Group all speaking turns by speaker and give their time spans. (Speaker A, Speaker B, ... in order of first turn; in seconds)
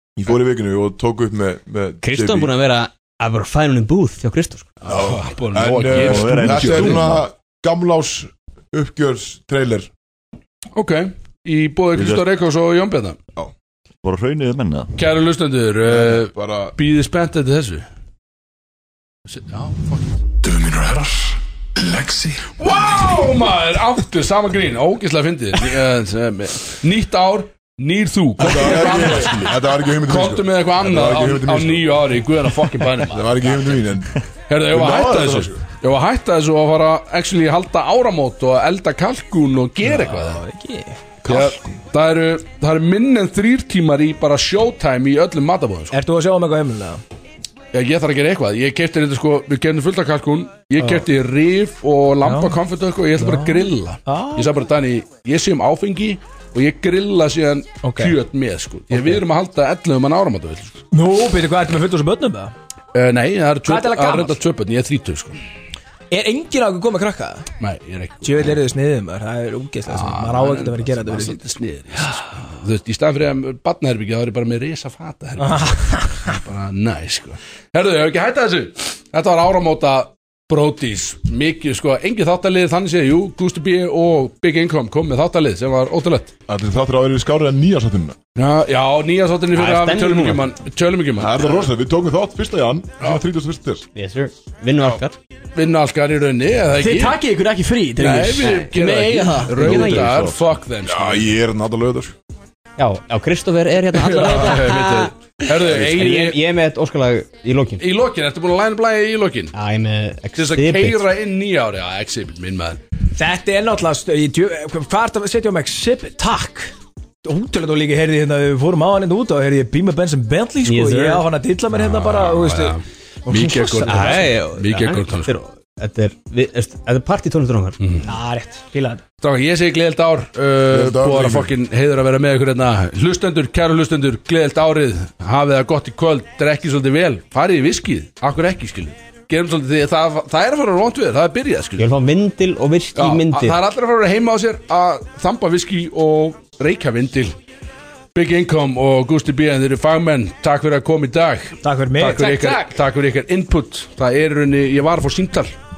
Speaker A: 0.2-2.5, 4.9-9.9, 15.9-16.7, 20.4-21.1, 21.9-22.4, 28.4-32.1, 33.1-34.2, 34.7-35.6, 41.3-41.7, 86.5-88.2, 91.2-93.8, 100.8-102.1, 130.7-131.5
Speaker B: 2.0-4.7, 89.5-90.4, 94.0-95.2, 99.3-100.1, 102.8-104.8, 105.7-107.8, 109.5-111.0, 120.7-121.3, 123.9-127.8, 141.8-143.6
Speaker C: 4.9-7.1, 10.8-13.2, 15.0-17.9, 19.3-20.2, 22.5-33.8, 34.5-40.4, 41.3-46.0, 47.7-60.8, 62.9-65.4, 67.6-68.6, 69.9-86.3, 88.4-91.7, 95.5-97.2, 98.0-101.3, 104.0-106.4, 107.8-109.5, 110.4-112.8, 121.7-125.3, 127.8-128.1, 129.2-141.8, 142.9-147.3, 148.2-155.5
Speaker D: 6.0-7.2, 11.9-12.3, 14.0-14.9, 99.6-100.4
Speaker E: 39.8-41.0, 45.9-47.0, 52.2-52.6, 53.2-54.5, 57.8-58.2, 58.9-59.2, 60.9-62.5, 63.7-64.3, 66.1-67.5, 68.2-71.4, 75.4-76.3, 113.2-116.7, 117.2-124.3, 128.1-129.0, 151.6-152.7
Speaker F: 96.8-99.6, 104.6-105.1